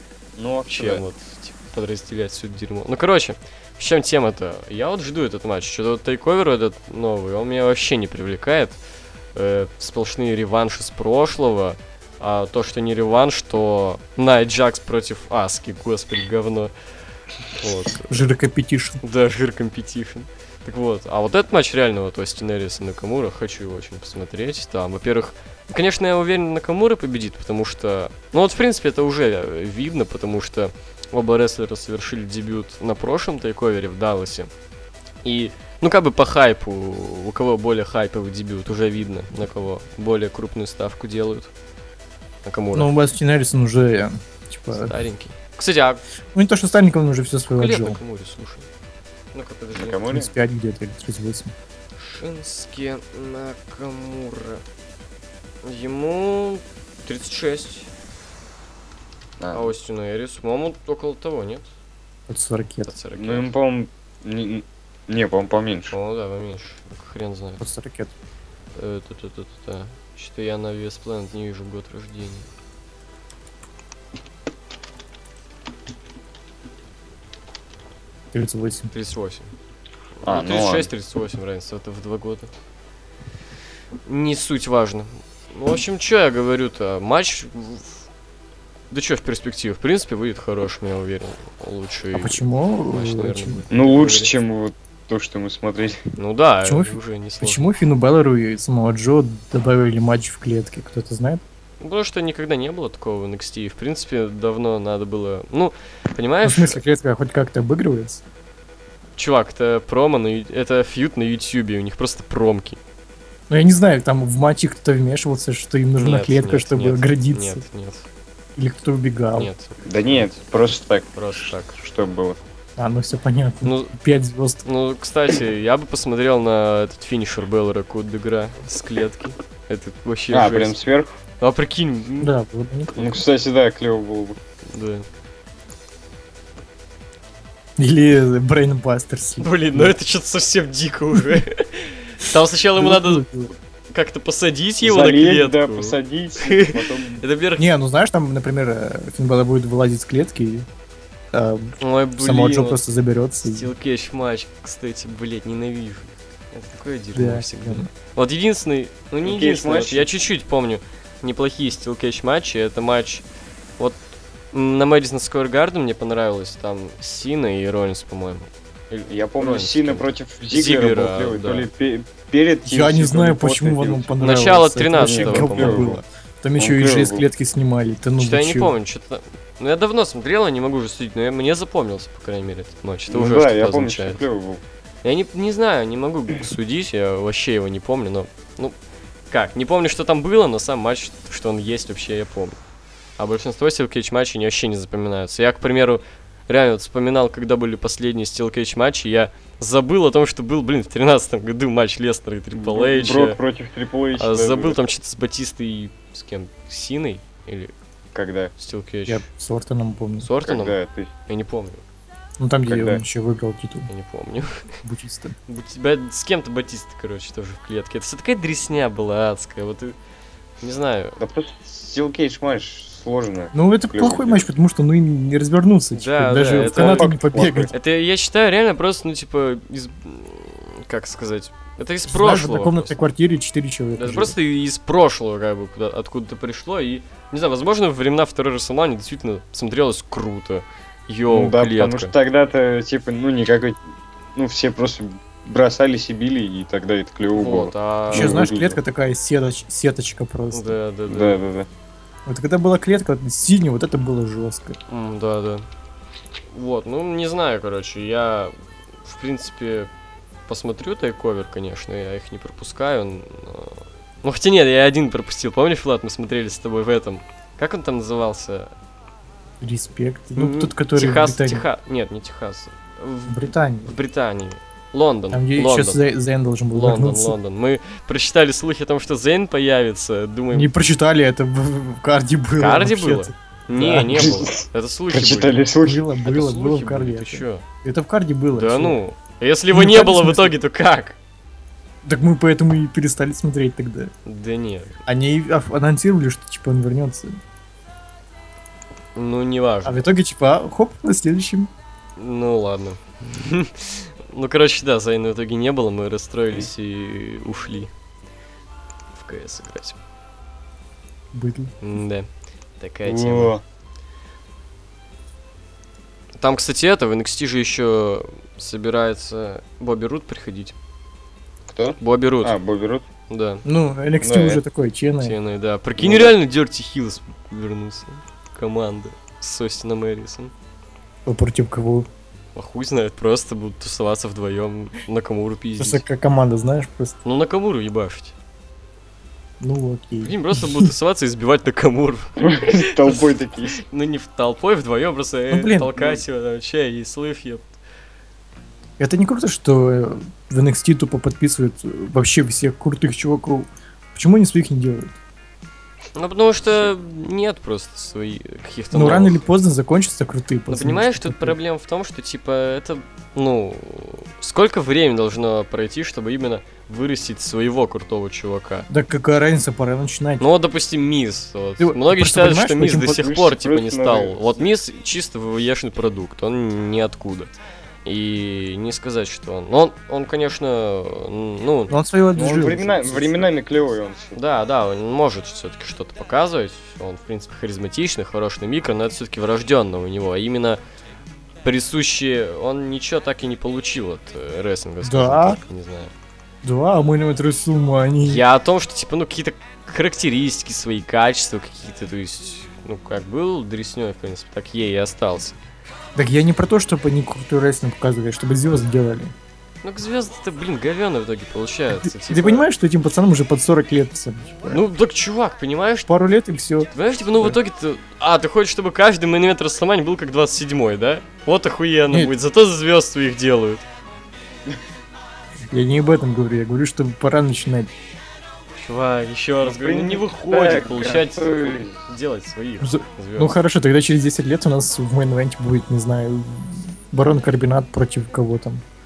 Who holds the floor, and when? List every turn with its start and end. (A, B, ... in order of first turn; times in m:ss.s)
0:00.4-0:01.0 A
0:00.7-0:08.8 B
0:09.3-0:16.7 B
0:17.5-0:18.2 B
0:18.1-0:19.0 C
0:19.0-0:34.5 B
0:35.2-0:41.5 B
0:42.4-0:42.9 B
0:42.7-0:44.9 C
0:44.7-0:46.0 B
0:46.3-0:48.0 C
0:47.5-0:48.7 B
0:49.3-0:50.0 B
0:49.7-0:50.3 A
0:50.1-0:51.5 C
0:52.0-0:54.6 B
0:55.6-0:57.9 B
0:59.4-0:59.7 A
0:59.5-1:01.7 B
1:02.3-1:02.9 C
1:02.8-1:03.5 B
1:03.2-1:05.9 A
1:05.9-1:07.6 B
1:07.6-1:08.1 C
1:08.8-1:12.5 B
1:18.3-1:18.9 C
1:18.9-1:19.5 B
1:20.2-1:22.5 B
1:20.2-1:20.9 A
1:24.0-1:28.0 B
1:28.9-1:34.4 B
1:32.1-1:33.6 C
1:33.7-1:36.0 A
1:36.2-1:37.6 B
1:36.6-1:41.4 C
1:41.8-1:46.8 B
1:46.4-1:48.2 C
1:49.2-1:52.8 B
1:53.5-1:57.6 C
1:56.0-1:58.1 B
1:58.6-1:59.5 C
1:59.4-2:00.4 B
1:59.8-2:02.4 A
2:01.1-2:01.7 B
2:02.8-2:04.6 C
2:03.6-2:03.9 B
2:04.6-2:10.8 B
2:10.3-2:11.1 A
2:11.4-2:12.3 B
2:12.2-2:13.2 C
2:13.0-2:14.4 A
2:14.7-2:15.1 B
2:17.8-2:19.9 C
2:19.4-2:23.3 B
2:21.1-2:21.4 C
2:22.8-2:23.5 C
2:23.9-2:27.7 B
2:24.8-2:27.2 A
2:27.6-2:30.7 C
2:31.3-2:33.7 C
2:31.8-2:32.8 B
2:33.4-2:43.2 B
2:37.1-2:37.9 C
2:39.2-2:40.1 A
2:44.5-2:51.7 B
2:49.1-2:54.2 A
2:52.6-2:58.7 C
2:54.2-2:56.0 B
2:55.0-2:56.0 A
2:56.6-2:57.2 A
2:58.2-3:04.2 B
3:03.1-3:04.6 A
3:05.0-3:08.7 B
3:09.3-3:12.6 B
3:13.2-3:23.4 B
3:22.5-3:24.8 A
3:24.2-3:27.7 B
3:28.1-3:28.5 A
3:28.6-3:29.2 B
3:29.1-3:30.3 C
3:30.2-3:30.8 B
3:30.4-3:31.1 A
3:31.3-3:31.8 B
3:32.4-3:33.9 C
3:32.6-3:33.0 A
3:33.9-3:34.7 B
3:34.8-3:35.3 C
3:35.5-3:40.0 B
3:40.6-3:41.2 B
3:41.2-3:44.5 A
3:43.5-3:47.7 C
3:45.9-3:47.1 B
3:46.5-3:47.7 A
3:47.7-3:53.0 B
3:52.1-3:54.3 C
3:54.0-4:02.1 B
4:01.3-4:03.8 A
4:04.3-4:08.8 A
4:07.3-4:08.4 B
4:08.1-4:10.8 C
4:10.5-4:11.4 B
4:11.1-4:11.7 A
4:12.2-4:14.8 C
4:14.9-4:15.7 B
4:16.5-4:19.9 B
4:20.5-4:28.7 B
4:29.6-4:31.6 C
4:30.3-4:36.0 B
4:33.3-4:34.0 C
4:35.3-4:37.4 C
4:36.7-4:40.7 B
4:40.5-4:44.4 C
4:42.6-4:45.6 B
4:44.1-4:46.0 A
4:45.8-4:49.0 C
4:46.2-4:47.6 B
4:48.5-4:51.2 B
4:49.7-4:50.5 C
4:52.0-4:54.1 C
4:54.2-4:55.0 B
4:55.0-4:57.4 C
4:59.1-5:00.1 B
4:59.8-5:01.7 C
5:02.2-5:07.9 B
5:09.1-5:10.0 B
5:11.3-5:11.7 C
5:11.8-5:12.3 B
5:12.8-5:13.5 B
5:13.0-5:13.6 A
5:16.4-5:20.7 B
5:21.7-5:23.0 A
5:22.0-5:22.5 B
5:23.3-5:23.6 B
5:23.6-5:25.4 C
5:24.2-5:24.6 A
5:25.2-5:30.5 B
5:26.0-5:26.3 A
5:31.2-5:32.1 C
5:32.5-5:36.0 B
5:35.8-5:37.2 C
5:37.2-5:38.3 B
5:39.6-5:40.9 C
5:40.2-5:43.2 B
5:42.4-5:43.8 A
5:43.8-5:47.7 B
5:45.5-5:46.0 C
5:49.0-5:55.1 C
5:56.1-5:59.5 B
5:58.9-6:01.6 C
6:00.7-6:08.9 B
6:08.9-6:10.4 C
6:10.4-6:17.5 B
6:11.8-6:13.2 C
6:13.2-6:14.6 A
6:18.0-6:22.0 B
6:21.9-6:23.5 C
6:22.3-6:24.4 A
6:24.3-6:30.8 B
6:31.6-6:36.1 B
6:35.0-6:35.6 C
6:36.6-6:38.4 C
6:38.2-6:45.6 B
6:46.2-6:49.3 C
6:49.8-6:52.6 B
6:51.9-6:54.8 C
6:54.7-6:56.1 B
6:56.1-6:56.9 C
6:56.9-7:03.8 B
7:05.7-7:07.9 C
7:08.8-7:13.6 B
7:09.6-7:12.0 A
7:12.8-7:18.8 C